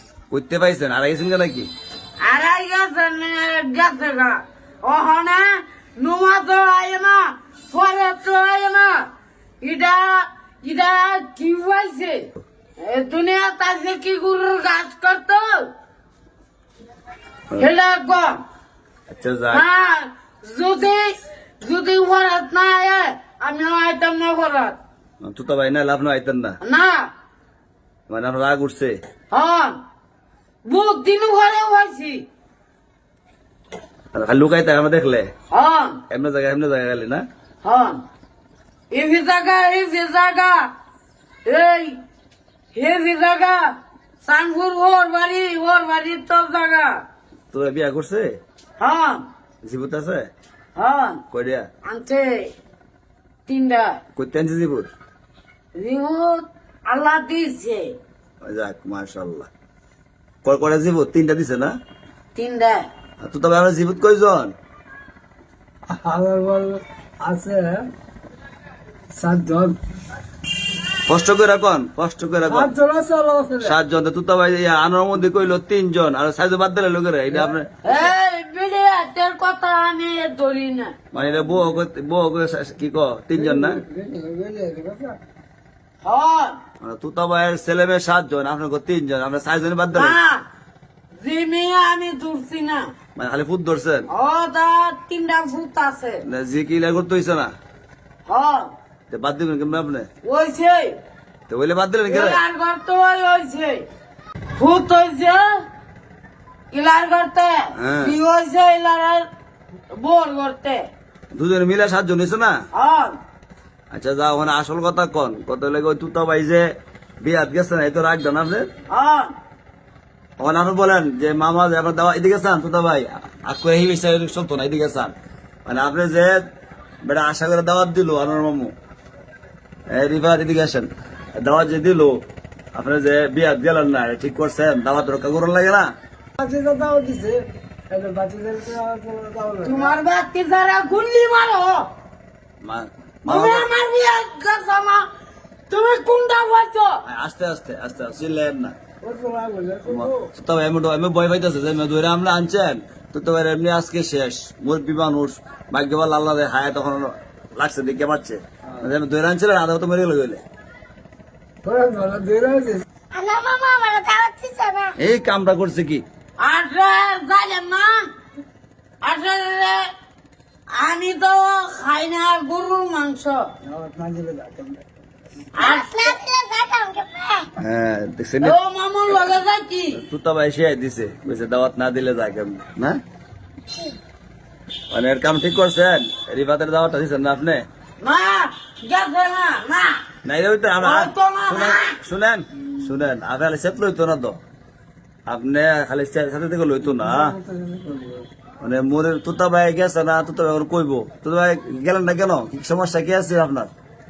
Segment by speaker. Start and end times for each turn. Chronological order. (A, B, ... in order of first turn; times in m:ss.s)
0:00.3-0:01.7 A
0:02.2-0:09.1 B
0:09.6-0:15.7 B
0:17.6-0:18.4 B
0:19.1-0:19.6 A
0:19.5-0:24.8 B
0:25.2-0:26.6 A
0:26.6-0:27.1 B
0:28.1-0:29.0 A
0:29.3-0:29.8 B
0:30.7-0:32.2 B
0:34.1-0:35.3 A
0:35.5-0:36.0 B
0:36.1-0:37.2 A
0:37.6-0:38.0 B
0:38.9-0:40.7 B
0:41.5-0:42.0 B
0:42.7-0:47.0 B
0:47.5-0:48.3 A
0:48.8-0:49.2 B
0:49.6-0:50.3 A
0:50.8-0:51.2 B
0:51.3-0:51.7 A
0:51.8-0:52.5 B
0:53.5-0:54.0 B
0:54.2-0:54.9 A
0:55.8-0:57.9 B
0:58.4-0:59.5 A
1:00.4-1:01.8 A
1:02.4-1:02.9 B
1:03.2-1:04.5 A
1:05.9-1:07.9 C
1:09.1-1:09.8 C
1:11.1-1:12.7 A
1:12.5-1:13.8 C
1:13.6-1:17.7 A
1:17.3-1:17.6 C
1:17.8-1:21.0 B
1:21.1-1:23.8 A
1:23.4-1:25.2 C
1:26.0-1:26.6 B
1:26.8-1:30.2 A
1:29.9-1:30.4 B
1:31.2-1:32.9 B
1:33.2-1:34.1 A
1:34.1-1:36.2 B
1:36.3-1:37.5 A
1:38.3-1:38.7 B
1:39.1-1:40.1 A
1:40.2-1:41.0 B
1:41.5-1:42.4 A
1:42.1-1:43.8 B
1:44.6-1:45.6 B
1:46.7-1:49.3 B
1:47.8-1:48.2 A
1:49.9-1:50.8 B
1:51.3-1:52.6 A
1:52.7-1:53.2 B
1:53.9-1:56.6 A
1:57.2-1:58.7 A
1:58.9-1:59.3 B
2:00.4-2:05.1 A
2:05.7-2:06.4 A
2:07.0-2:08.7 A
2:09.9-2:12.2 A
2:12.7-2:15.9 A
2:16.4-2:20.0 C
2:19.6-2:21.9 B
2:22.6-2:23.7 A
2:23.3-2:25.1 B
2:25.7-2:27.0 B
2:27.1-2:28.8 A
2:29.0-2:30.3 C
2:29.9-2:40.4 A
2:41.6-2:42.9 C
2:43.1-2:45.0 D
2:45.0-2:46.0 A
2:46.4-2:48.1 B
2:49.0-2:49.9 B
2:50.7-2:53.4 B
2:53.6-2:54.8 C
2:55.6-2:56.2 B
2:55.6-2:57.5 D
2:57.6-2:58.6 A
2:58.4-3:00.0 B
3:00.0-3:03.0 A
3:04.9-3:07.6 A
3:08.0-3:10.0 B
3:10.2-3:14.4 A
3:10.8-3:12.0 B
3:15.3-3:17.3 A
3:16.9-3:18.3 C
3:18.6-3:23.7 A